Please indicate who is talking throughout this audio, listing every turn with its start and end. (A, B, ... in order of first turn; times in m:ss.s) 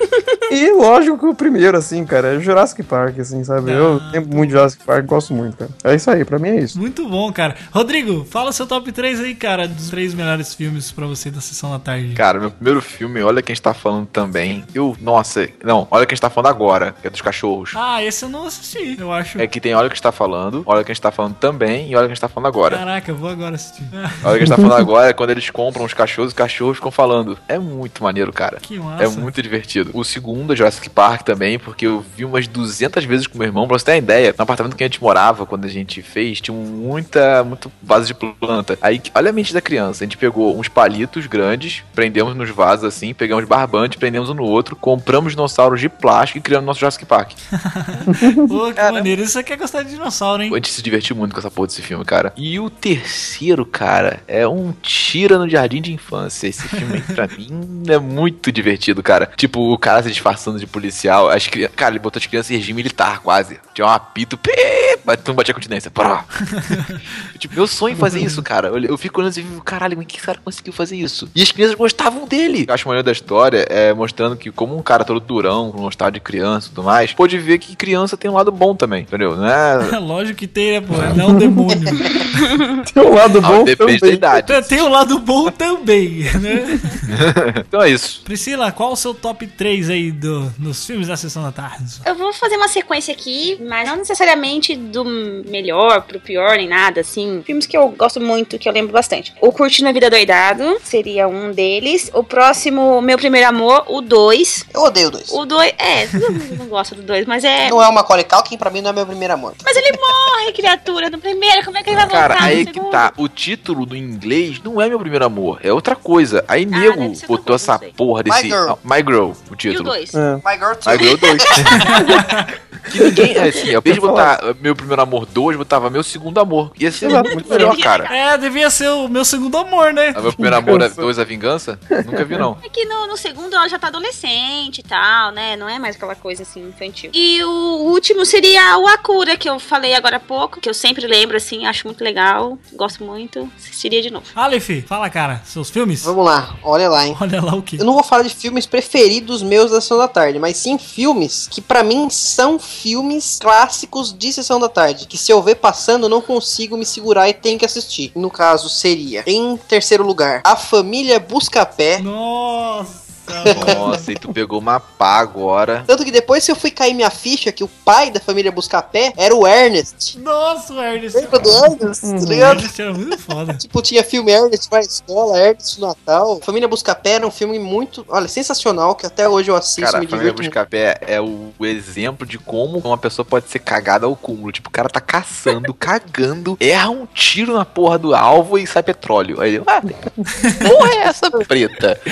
0:00.5-0:06.8 A
0:03.6-0:04.6 B
0:06.7-0:12.2 B
0:12.2-0:17.8 C
0:17.7-0:19.5 B
0:19.4-0:22.8 C
0:22.7-0:24.3 B
0:24.2-0:47.4 C
0:28.6-0:29.3 B
0:47.6-0:50.6 B
0:48.1-0:48.5 A
0:50.5-1:19.9 C
1:06.5-1:07.2 B
1:07.9-1:08.4 B
1:19.8-1:22.0 B
1:21.1-1:22.2 A
1:22.5-1:22.8 D
1:22.8-1:24.2 A
1:23.4-1:24.8 C
1:24.4-1:27.0 B
1:27.1-1:28.2 C
1:28.2-1:32.0 B
1:32.0-1:44.7 D
1:44.7-1:45.4 E
1:45.3-1:47.8 D
1:47.6-1:49.9 E
1:49.6-1:53.1 D
1:52.0-2:00.0 C
1:56.7-1:57.9 D
1:58.2-1:58.8 E
1:59.7-2:00.2 D
2:00.1-2:00.4 A
2:00.4-2:02.0 E
2:00.8-2:02.1 C
2:02.0-2:02.4 B
2:02.9-2:08.1 C
2:02.9-2:04.3 A
2:07.0-2:07.8 A
2:07.0-2:08.2 D
2:08.1-2:10.4 B
2:10.1-2:12.6 C
2:10.4-2:11.1 A
2:12.0-2:12.4 A
2:12.6-2:24.3 D
2:24.3-2:26.1 B
2:26.0-2:27.2 E
2:27.1-2:27.8 B
2:27.8-2:42.0 E
2:42.0-2:44.0 B
2:43.5-2:43.8 E
2:43.5-2:45.9 C
2:45.9-2:50.1 E
2:50.1-2:51.7 B
2:51.1-2:52.6 E
2:52.0-2:52.6 A
2:52.2-2:53.6 B
2:53.6-3:00.5 E
2:59.8-3:09.9 C
3:10.5-3:12.0 C